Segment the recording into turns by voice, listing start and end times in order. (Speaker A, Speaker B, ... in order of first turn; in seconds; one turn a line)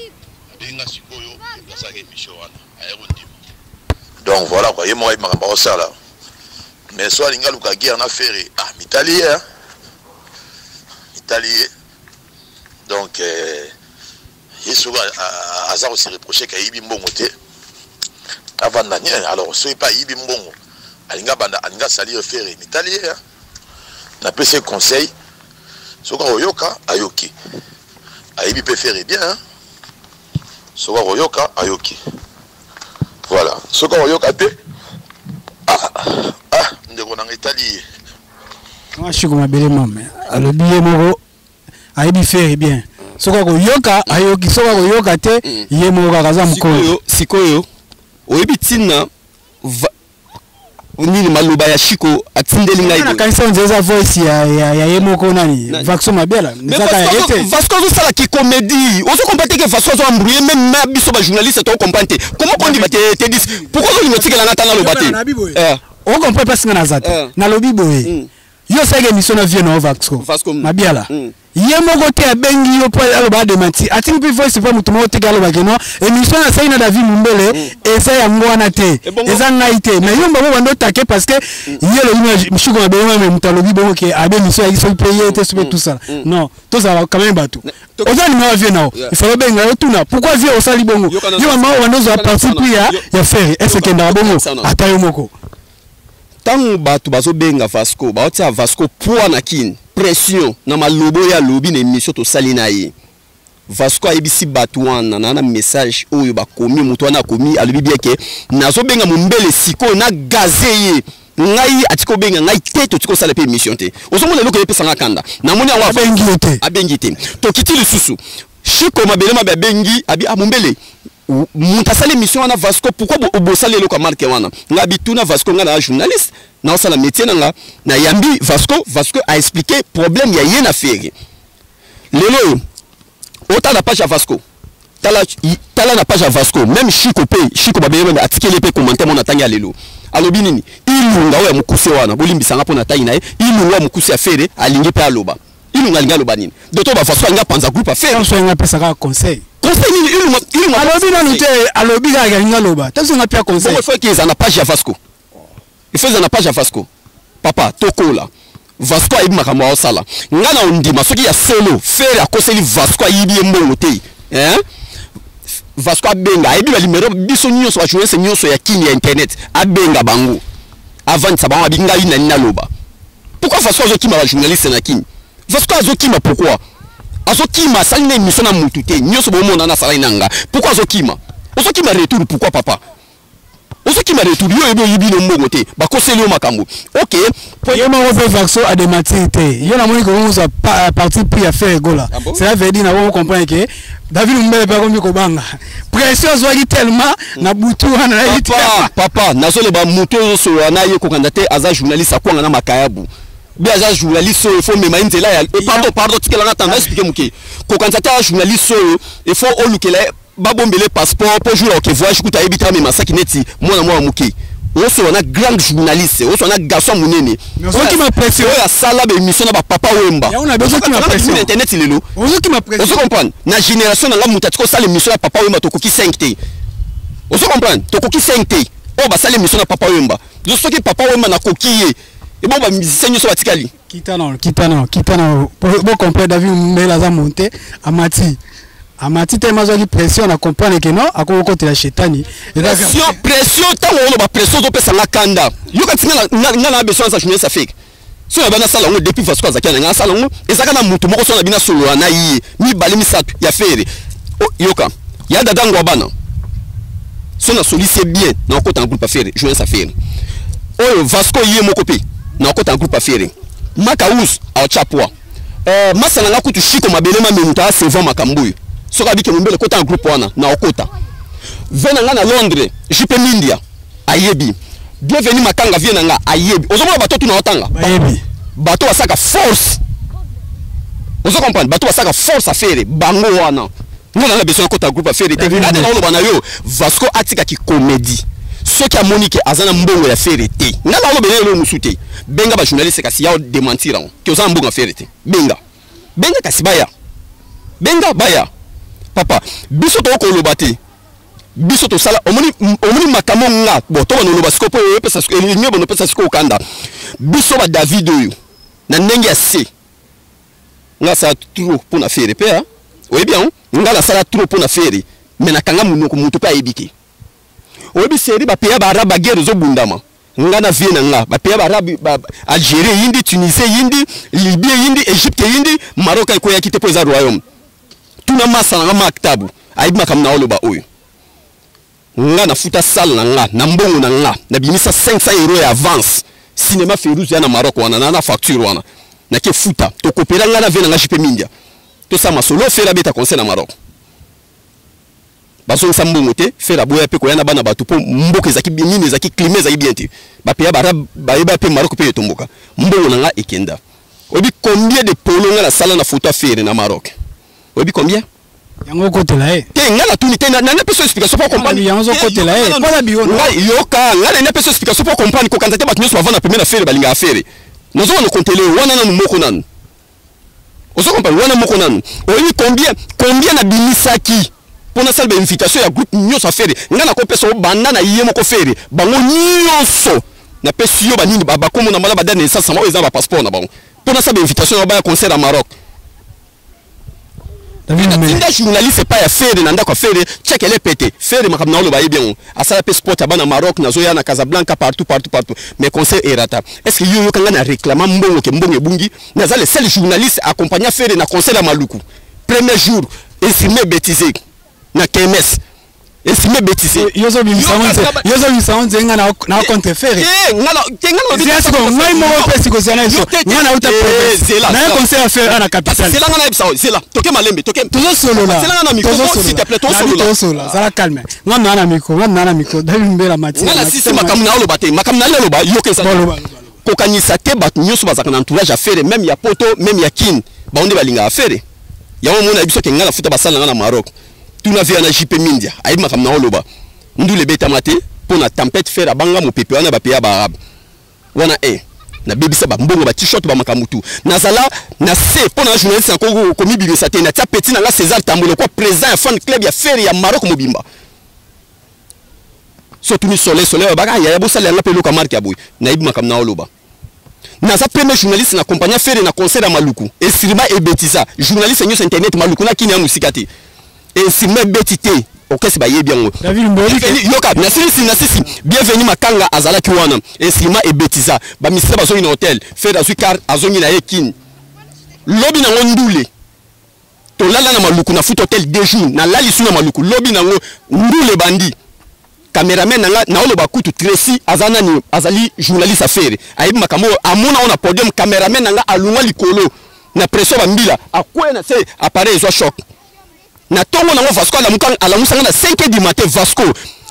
Speaker A: 0.5-3.3
Speaker A: 4.2-5.9
Speaker A: 6.9-9.4
Speaker A: 11.2-11.7
Speaker A: 12.9-13.7
Speaker A: 14.6-17.3
Speaker A: 18.6-20.6
Speaker A: 21.1-23.2
Speaker A: 24.2-25.1
Speaker A: 26.0-27.3
Speaker A: 28.4-29.4
Speaker A: 30.8-32.0
Speaker A: 33.3-34.5
Speaker A: 35.7-37.8
Speaker B: 39.0-41.2
Speaker B: 42.0-46.9
Speaker C: 46.4-47.7
Speaker C: 48.3-49.1
Speaker C: 49.6-49.9
Speaker C: 51.0-53.2
Speaker B: 52.8-57.5
Speaker C: 56.7-65.8
Speaker B: 62.5-68.1
Speaker C: 67.0-67.3
Speaker C: 68.0-68.3
Speaker B: 68.7-95.3
Speaker C: 70.2-71.3
Speaker C: 79.0-79.5
Speaker C: 85.2-86.2
Speaker C: 87.6-88.2
Speaker C: 91.1-93.0
Speaker C: 93.6-94.7
Speaker C: 96.4-102.9
Speaker C: 103.7-131.1
Speaker B: 115.8-116.6
Speaker C: 132.1-132.6
Speaker C: 133.5-134.4
Speaker C: 135.0-148.3
Speaker B: 148.1-149.4
Speaker C: 149.6-151.4
Speaker B: 150.7-153.8
Speaker C: 153.6-155.0
Speaker C: 155.9-156.9
Speaker C: 157.4-164.6
Speaker C: 165.8-170.4
Speaker C: 171.1-172.7
Speaker C: 173.4-176.6
Speaker C: 177.3-182.8
Speaker C: 183.8-187.9
Speaker B: 187.7-198.9
Speaker C: 192.1-192.4
Speaker C: 198.2-222.1
Speaker B: 205.6-205.9
Speaker B: 217.6-218.6
Speaker B: 220.3-221.5
Speaker B: 222.2-223.0
Speaker C: 222.8-226.4
Speaker C: 227.3-233.7
Speaker B: 233.9-238.4
Speaker B: 239.0-243.1
Speaker C: 242.6-247.8
Speaker C: 248.3-256.1
Speaker C: 257.4-259.9
Speaker C: 260.8-265.1
Speaker C: 265.6-270.9
Speaker C: 271.7-277.9
Speaker B: 277.7-278.2
Speaker C: 278.6-279.8
Speaker C: 281.2-295.6
Speaker B: 285.4-285.9
Speaker C: 296.2-296.9
Speaker C: 297.8-298.5
Speaker C: 299.1-300.8
Speaker C: 301.6-306.6
Speaker C: 307.2-308.4
Speaker C: 308.9-309.7
Speaker C: 311.0-316.9
Speaker C: 317.9-327.4
Speaker C: 328.2-330.9
Speaker C: 332.2-341.5
Speaker C: 342.1-343.7
Speaker C: 345.7-353.8
Speaker C: 354.3-357.1
Speaker C: 357.8-358.3
Speaker B: 358.9-359.7
Speaker C: 359.7-369.6
Speaker B: 361.5-363.5
Speaker C: 370.9-385.7
Speaker B: 387.9-388.4
Speaker C: 387.9-404.4
Speaker C: 404.9-405.6
Speaker C: 406.2-408.3
Speaker B: 406.9-410.3
Speaker C: 409.6-420.7
Speaker B: 411.3-416.2
Speaker B: 417.9-424.4
Speaker C: 423.6-426.3
Speaker B: 426.0-426.6
Speaker C: 426.8-431.6
Speaker C: 432.2-436.6
Speaker C: 437.2-440.6
Speaker C: 441.4-450.9
Speaker C: 453.0-456.7
Speaker C: 457.6-463.5
Speaker C: 464.1-474.4
Speaker B: 466.4-467.2
Speaker C: 475.3-476.3
Speaker C: 477.4-481.8
Speaker C: 482.5-492.8
Speaker C: 493.7-496.8